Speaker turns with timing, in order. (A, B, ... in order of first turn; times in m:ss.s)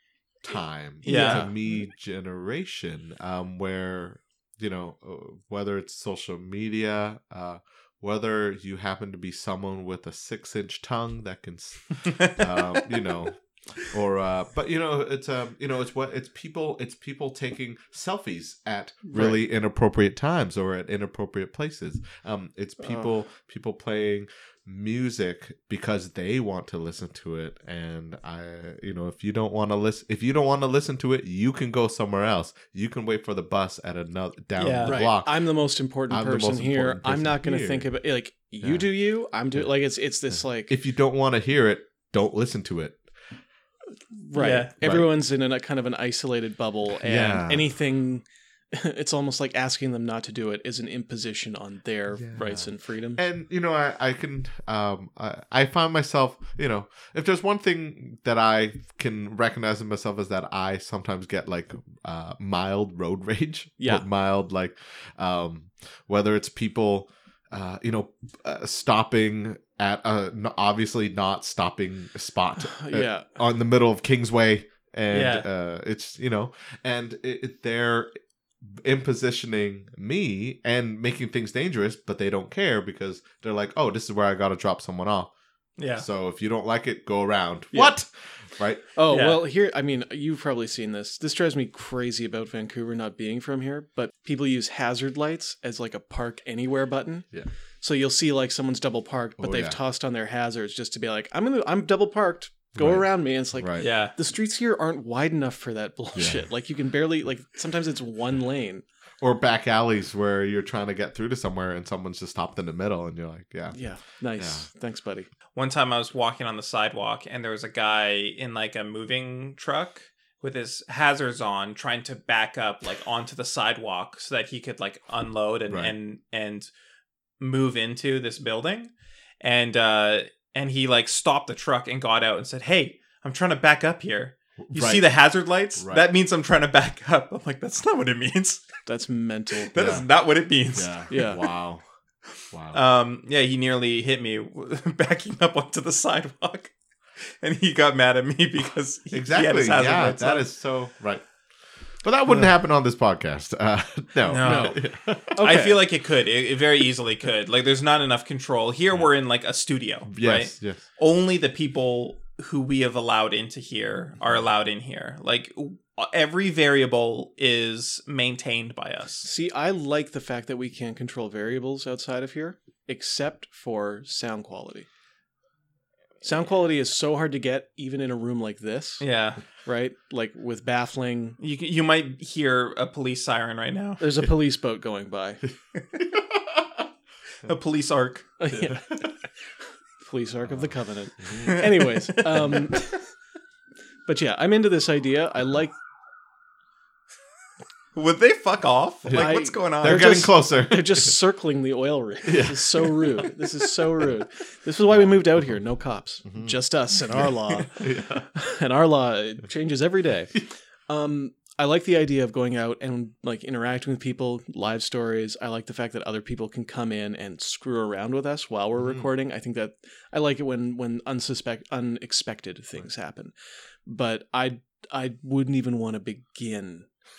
0:00.4-0:35.4 A
0:01.0-0:01.5 B
0:01.0-0:01.5 C
0:19.0-0:19.4 C
0:34.6-0:35.0 B
0:34.8-0:40.7 C
0:36.1-0:37.9 A
0:40.7-0:43.0 A
0:44.1-0:53.2 C
0:44.3-0:44.7 B
0:44.8-0:45.1 A
0:47.0-0:47.7 A
0:52.2-1:18.1 A
1:03.8-1:04.0 C
1:12.6-1:13.3 C
1:15.1-1:15.5 B
1:18.6-1:25.3 A
1:25.8-1:26.0 B
1:26.0-1:28.8 A
1:29.0-1:37.2 C
1:29.1-1:29.4 B
1:37.8-1:48.8 C
1:39.4-1:39.8 A
1:42.8-1:43.8 A
1:43.8-1:44.1 B
1:46.2-1:46.4 A
1:49.2-1:53.8 A
1:53.7-1:55.3 C
1:54.4-1:54.7 A
1:55.6-2:06.7 B
2:05.7-2:05.9 A
2:07.4-2:18.8 B
2:14.6-2:15.0 A
2:15.8-2:16.0 A
2:18.8-2:20.0 C
2:19.6-2:21.2 B
2:19.7-2:20.0 A
2:20.7-2:21.8 A
2:21.1-2:21.4 C
2:22.5-2:22.8 A
2:22.7-2:26.7 B
2:27.4-2:30.4 B
2:29.1-2:31.2 A
2:32.0-2:35.3 A
2:34.3-2:34.8 B
2:34.4-2:35.8 C
2:35.4-2:49.3 B
2:40.1-2:40.8 A
2:49.2-2:54.9 C
2:56.2-2:59.0 C
2:59.0-2:59.4 B
2:59.6-3:01.4 C
3:01.4-3:04.0 B
3:04.0-3:05.4 C
3:07.4-3:08.3 B
3:08.4-3:09.1 C
3:10.0-3:13.0 C
3:11.4-3:12.6 B
3:14.0-3:15.7 C
3:17.9-3:20.3 B
3:19.1-3:21.1 A
3:19.1-3:30.3 C
3:22.2-3:23.3 A
3:26.3-3:26.5 A
3:27.2-3:28.3 A
3:30.9-3:43.3 C
3:43.8-3:46.9 C